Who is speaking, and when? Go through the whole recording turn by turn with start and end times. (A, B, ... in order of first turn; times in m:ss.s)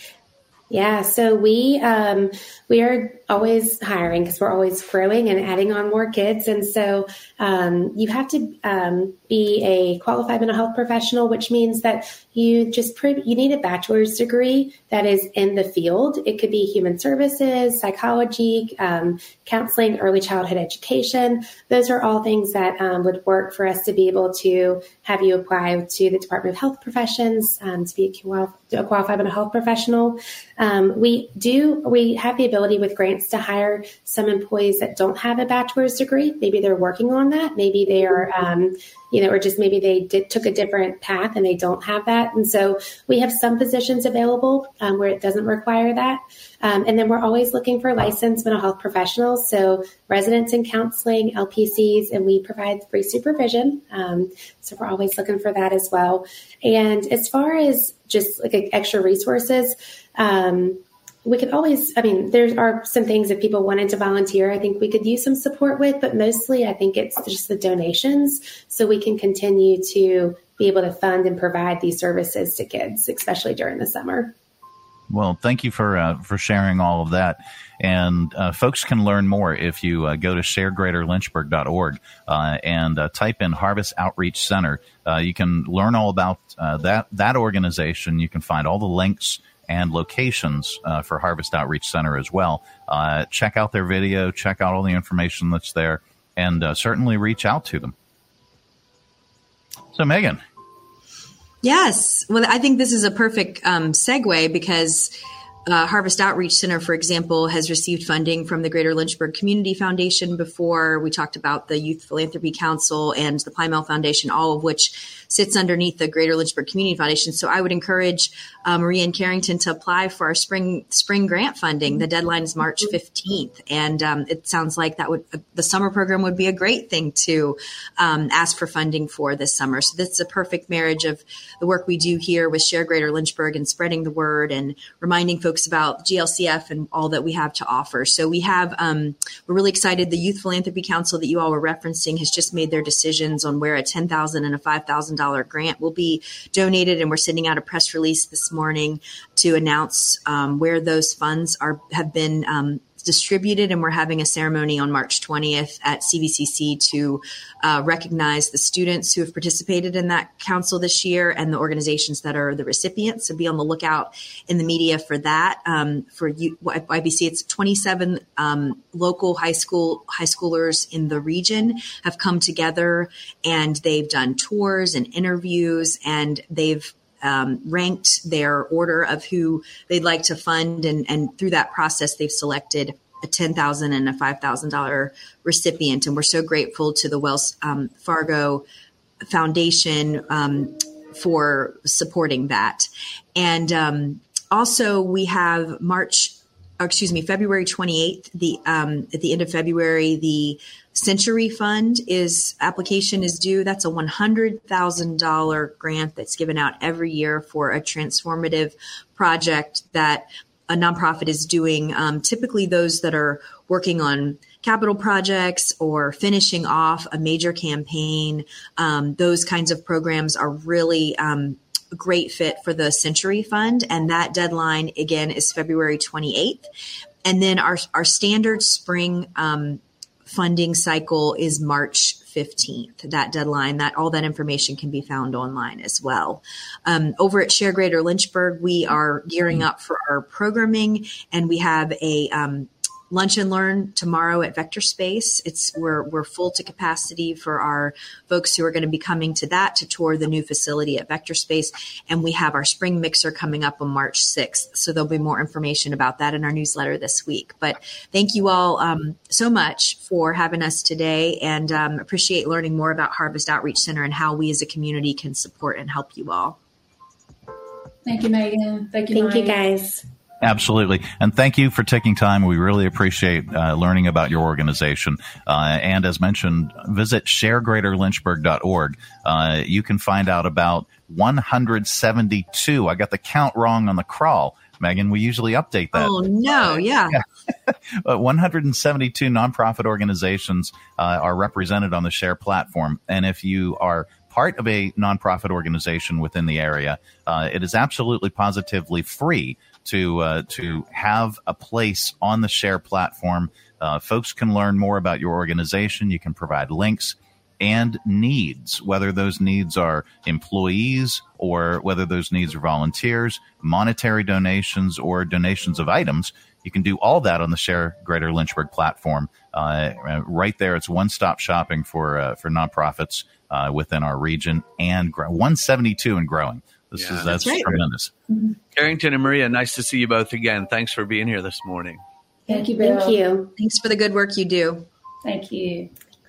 0:00.7-1:14.4 A
1:15.1-1:37.9 B
1:39.9-1:40.4 B
1:41.6-1:45.1 C
1:45.7-3:08.6 C
3:09.2-3:46.7 C
3:47.2-4:26.6 C
4:28.0-4:29.6 D
4:29.1-4:30.0 A
4:30.4-4:46.1 B
4:46.0-4:47.2 C
4:46.8-4:47.2 B
4:47.7-5:28.1 B
5:27.0-5:27.3 E
5:27.3-5:27.7 C
5:28.8-5:32.0 E
5:32.5-5:33.2 D
5:32.5-5:33.5 A
5:33.6-5:34.9 C
5:35.2-5:35.9 D